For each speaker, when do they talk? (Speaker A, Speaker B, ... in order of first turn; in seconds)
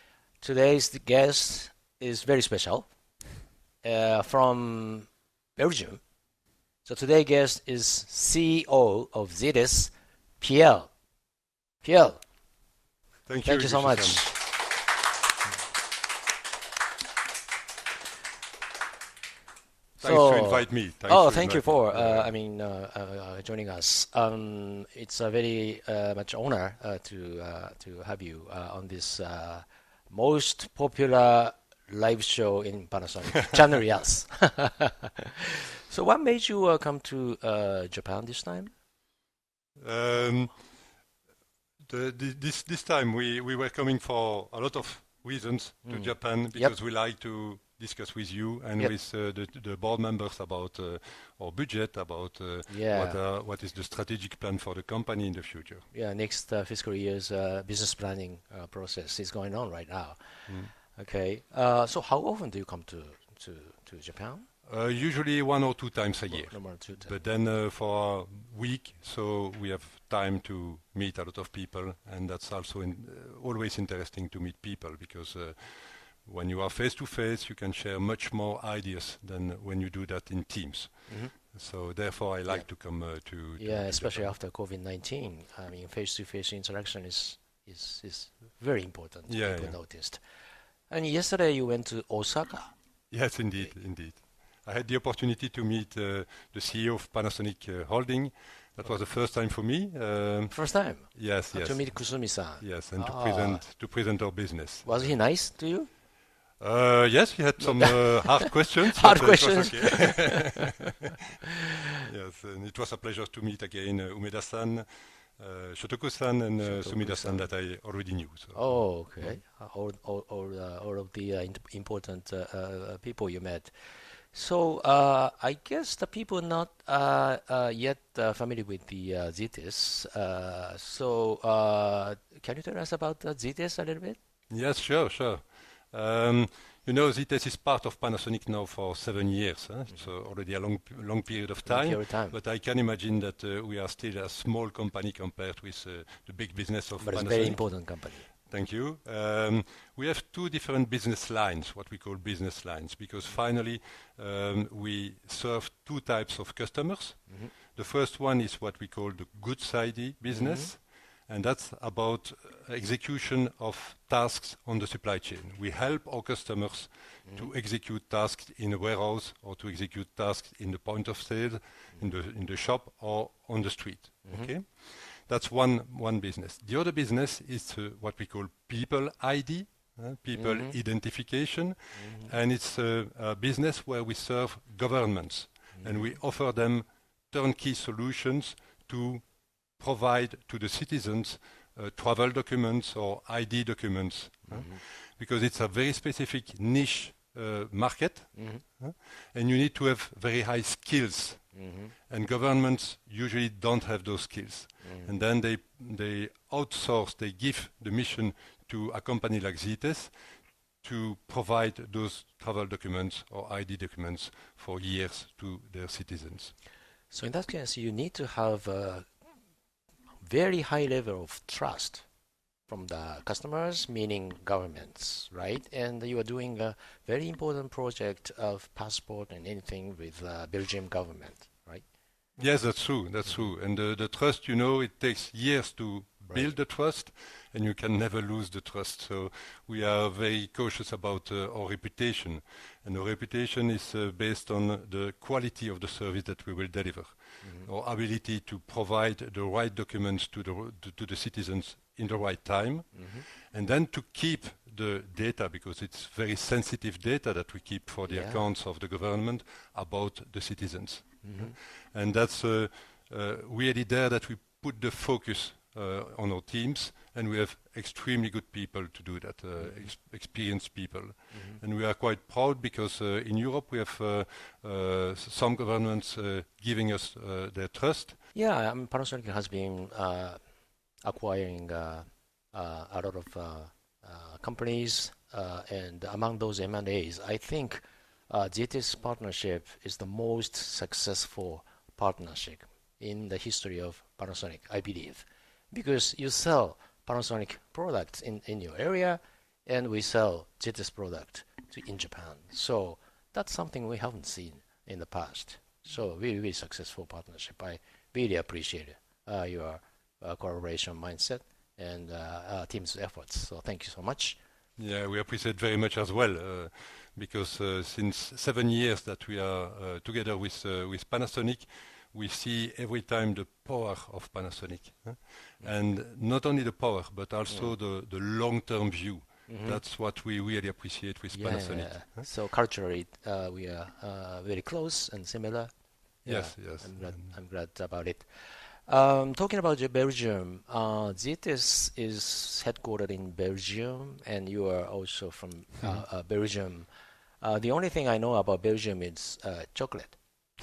Speaker A: 0.4-2.9, 3.8-6.0, 6.8-10.9, 11.8-12.2, 13.4-14.4, 20.0-38.7, 45.9-46.8, 52.7-53.2, 55.9-64.5, 66.3-67.2, 81.1-81.3, 83.6-90.2, 90.9-92.8, 100.5-103.7, 104.8-105.9, 107.6-110.8, 116.6-117.5, 118.5-134.2, 141.7-142.4, 147.0-148.3, 160.3-160.7, 174.3-174.5, 180.3-180.8, 182.0-182.3, 185.8-186.1, 194.5-194.8, 198.3-198.6, 201.5-201.9, 204.8-205.1, 217.1-219.1, 220.2-222.1, 222.7-231.9, 247.4-247.7, 252.9-253.3, 258.1-258.4, 261.2-261.6, 269.6-269.9, 271.3-271.6, 278.3-280.4, 281.0-314.4, 329.5-329.8, 331.3-335.7, 336.2-346.9, 347.4-350.2
Speaker B: 13.3-14.3, 20.0-22.3, 39.8-40.5, 41.8-55.9, 60.5-60.7, 64.7-84.3, 89.3-89.8, 93.1-105.1, 106.6-110.9, 112.0-119.4, 134.5-201.6, 202.1-210.1, 210.8-216.6, 232.4-278.2, 314.8-332.3, 336.2-337.4